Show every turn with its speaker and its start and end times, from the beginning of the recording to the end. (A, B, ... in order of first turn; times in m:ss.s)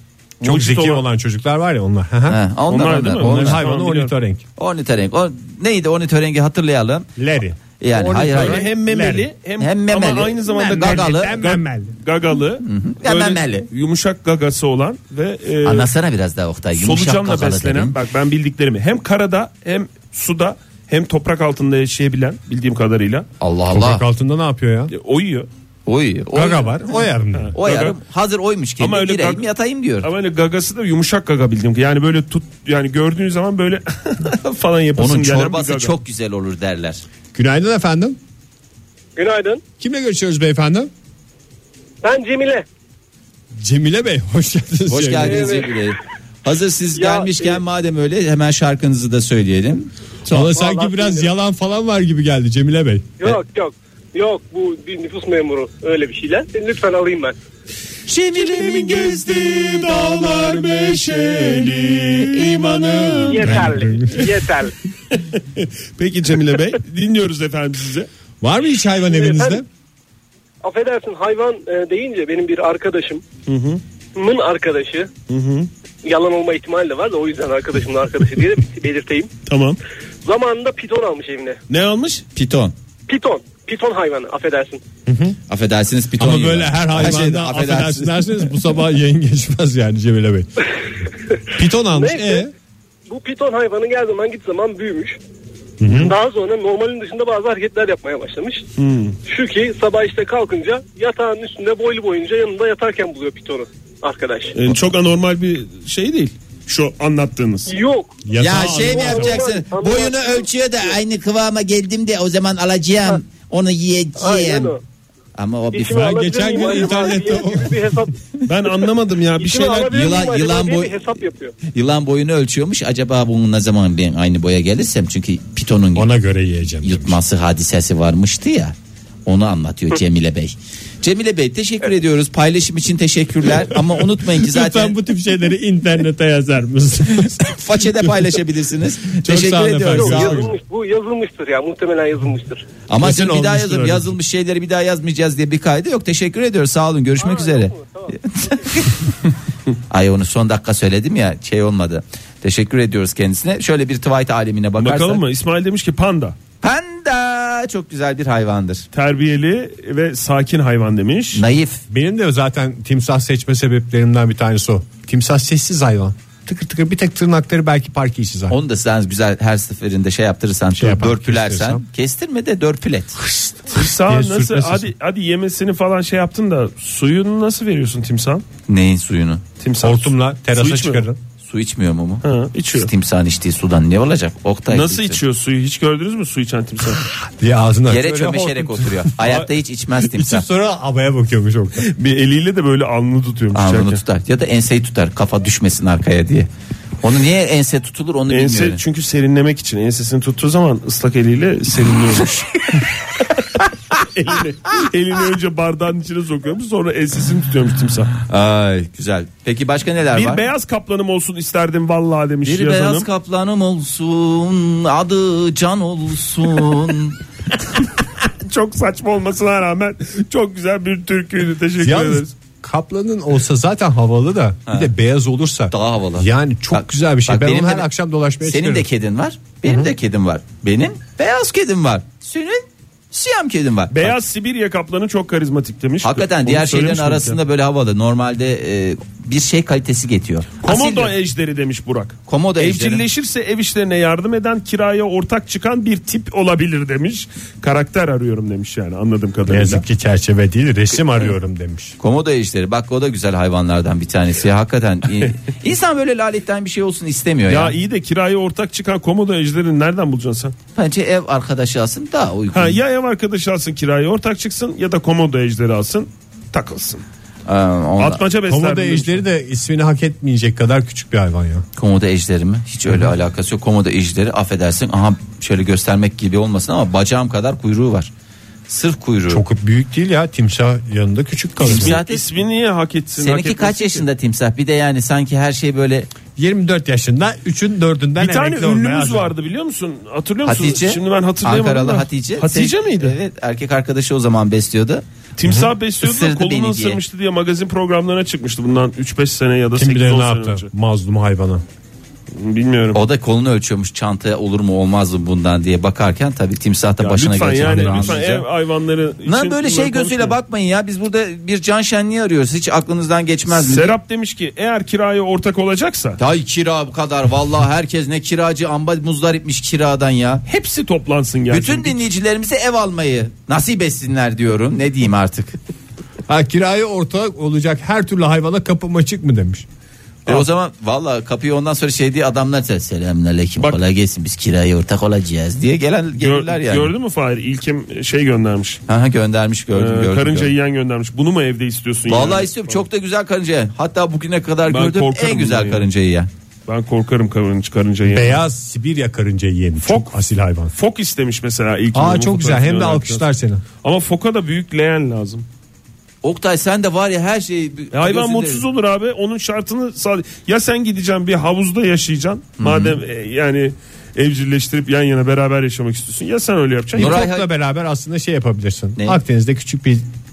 0:00.4-0:01.0 A
0:00.4-0:02.4 B
0:02.3-0:03.6 C
0:02.7-0:04.1 A
0:03.1-0:04.4 B
0:04.6-0:07.1 C
0:07.2-0:09.3 B
0:07.8-0:08.7 C
0:08.3-0:15.9 A
0:09.6-0:11.4 C
0:10.5-0:11.9 B
0:12.6-0:13.7 C
0:15.6-0:18.0 C
0:16.8-0:23.2 A
0:23.4-0:24.0 C
0:23.7-0:24.9 B
0:24.9-0:25.5 A
0:25.8-0:27.0 C
0:26.3-0:27.5 B
0:27.3-0:28.0 A
0:27.5-0:30.1 C
0:28.8-0:29.5 A
0:30.0-0:36.0 A
0:35.0-0:37.0 C
0:37.3-0:38.2 B
0:39.2-0:39.6 D
0:39.8-0:40.9 B
0:42.0-0:42.6 D
0:43.6-0:45.6 B
0:44.9-0:50.4 C
0:45.2-0:45.9 D
0:46.9-0:47.6 D
0:50.3-0:53.1 B
0:50.3-0:51.3 D
0:53.2-0:57.4 D
0:58.1-1:04.3 A
1:03.3-1:04.3 B
1:03.3-1:04.7 D
1:05.1-1:08.1 A
1:08.4-1:09.6 B
1:09.1-1:09.6 D
1:10.6-1:13.2 D
1:13.5-1:13.8 A
1:14.1-1:15.1 D
1:15.3-1:15.7 A
1:16.0-1:19.3 D
1:19.4-1:19.8 A
1:20.2-1:21.6 D
1:21.7-1:22.2 A
1:22.3-1:22.7 C
1:23.1-1:24.8 D
1:25.0-1:25.4 B
1:25.5-1:28.2 C
1:26.2-1:30.5 B
1:31.5-1:32.5 B
1:31.9-1:32.5 D
1:33.1-1:35.2 D
1:35.8-1:36.1 B
1:35.9-1:38.6 D
1:38.8-1:39.2 A
1:39.2-1:44.6 D
1:44.5-1:47.8 A
1:47.7-1:50.9 D
1:48.2-1:49.4 B
1:48.4-1:54.7 C
1:54.2-1:54.8 D
1:55.4-1:56.2 C
1:55.7-1:58.1 D
1:55.8-1:58.0 B
1:58.4-2:00.2 A
1:59.4-2:01.5 D
1:59.9-2:01.1 C
2:01.7-2:06.1 C
2:05.9-2:07.2 B
2:06.8-2:08.7 C
2:09.2-2:14.9 C
2:14.3-2:18.3 B
2:17.4-2:20.5 C
2:19.1-2:20.5 B
2:19.9-2:22.6 D
2:22.9-2:29.2 C
2:23.0-2:24.2 B
2:27.2-2:28.1 D
2:29.9-2:35.2 C
2:34.8-2:36.4 A
2:36.6-2:38.8 C
2:38.9-2:41.4 A
2:41.3-2:41.8 C
2:41.9-2:48.6 B
2:48.5-2:53.2 C
2:50.7-2:51.8 B
2:53.2-2:54.9 B
2:53.7-2:58.4 A
2:58.7-2:59.4 C
2:59.6-3:01.1 A
2:59.8-3:01.2 B
3:01.4-3:05.2 C
3:02.2-3:02.9 A
3:04.7-3:07.0 A
3:07.0-3:11.9 B
3:07.9-3:10.4 C
3:11.8-3:14.0 A
3:13.5-3:16.5 C
3:17.0-3:18.8 C
3:18.3-3:23.4 A
3:23.9-3:28.1 A
3:28.3-3:30.4 C
3:30.1-3:33.1 A
3:32.4-3:37.2 C
3:38.2-3:42.3 A
3:41.8-3:48.8 B
3:45.7-3:47.9 C
3:48.4-3:54.2 C
3:53.9-3:57.4 A
3:56.0-4:01.1 C
4:00.6-4:09.8 A
4:02.3-4:03.0 C
4:09.5-4:12.0 B
4:12.0-4:17.7 C
4:17.5-4:20.5 A
4:20.8-4:22.8 C
4:22.5-4:27.0 A
4:27.5-4:28.2 C
4:28.0-4:29.2 A
4:28.5-4:31.6 B
4:31.8-4:38.1 C
4:38.7-4:39.4 C
4:39.3-4:42.0 B
4:41.6-4:42.2 C
4:41.6-4:44.0 A
4:43.2-4:46.1 C
4:46.4-4:49.3 B
4:48.2-4:53.2 A
4:50.4-4:55.0 C
4:55.4-5:00.7 A
4:55.4-4:55.7 B
4:56.0-4:57.0 C
4:59.7-5:01.6 B
5:02.3-5:03.0 A
5:02.9-5:08.4 C
5:07.0-5:10.4 A
5:07.6-5:08.2 B
5:09.2-5:13.9 C
5:13.5-5:16.2 A
5:16.2-5:20.4 C
5:20.4-5:22.0 A
5:21.5-5:25.6 C
5:26.3-5:29.6 B
5:30.2-5:36.9 C
5:36.2-5:38.8 A
5:38.9-5:40.5 C
5:39.7-5:42.8 A
5:42.1-5:46.3 C
5:44.7-5:45.9 A
5:46.7-5:48.4 A
5:48.1-5:50.7 B
5:49.8-5:50.1 A
5:50.7-5:53.2 A
5:51.9-5:53.6 B
5:53.8-5:55.4 A
5:56.2-5:58.6 C
5:57.9-6:07.2 A
6:02.6-6:03.0 C
6:06.9-6:10.1 B
6:07.0-6:07.5 C